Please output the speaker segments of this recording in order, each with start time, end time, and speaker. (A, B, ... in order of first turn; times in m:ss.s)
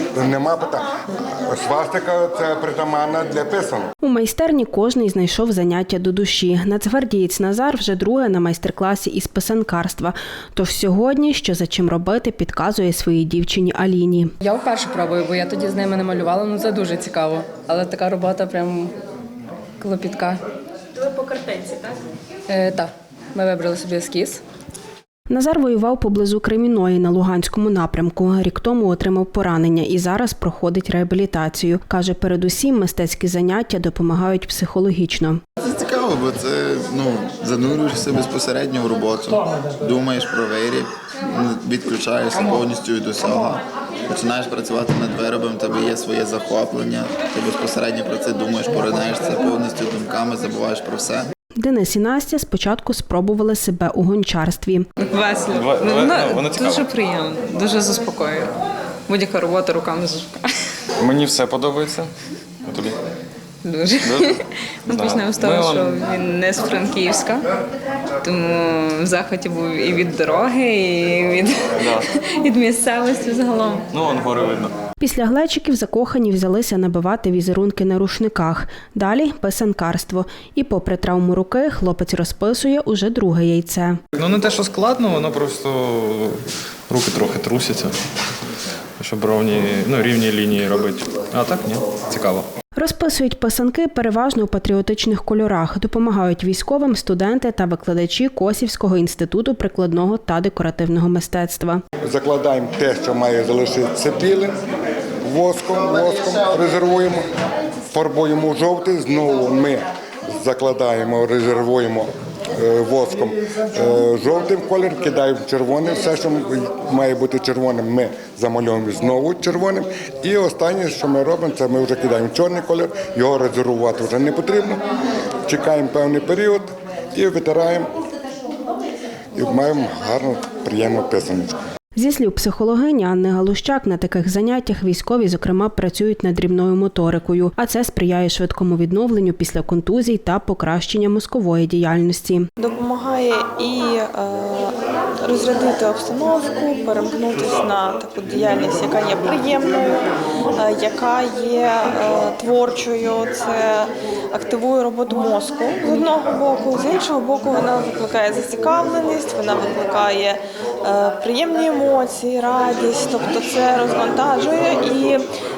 0:00.1-0:00.9 A
0:01.5-0:03.9 A
0:04.0-0:14.3 B
0:14.4-0:18.9 C
0:19.8-0:20.4 C
0:21.0-0:21.9 D
0:22.5-0:24.4 C
0:25.3-0:35.4 B
0:35.6-0:51.3 E
0:51.6-0:54.8 B
0:55.0-0:58.5 D
0:55.5-0:57.0 F
0:59.1-1:00.5 D
1:01.0-1:02.1 F
1:02.6-1:03.0 F
1:03.6-1:07.5 D
1:04.0-1:06.0 F
1:08.2-1:13.8 D
1:13.9-1:14.8 F
1:15.0-1:24.0 B
1:24.2-1:28.0 F
1:29.0-1:32.5 F
1:32.8-1:41.8 B
1:42.0-1:44.6 A
1:45.2-1:47.2 A
1:47.9-1:49.9 A
1:50.4-2:04.8 A
2:05.5-2:07.9 A
2:09.4-2:11.6 A
2:12.0-2:22.5 B
2:22.6-2:45.2 G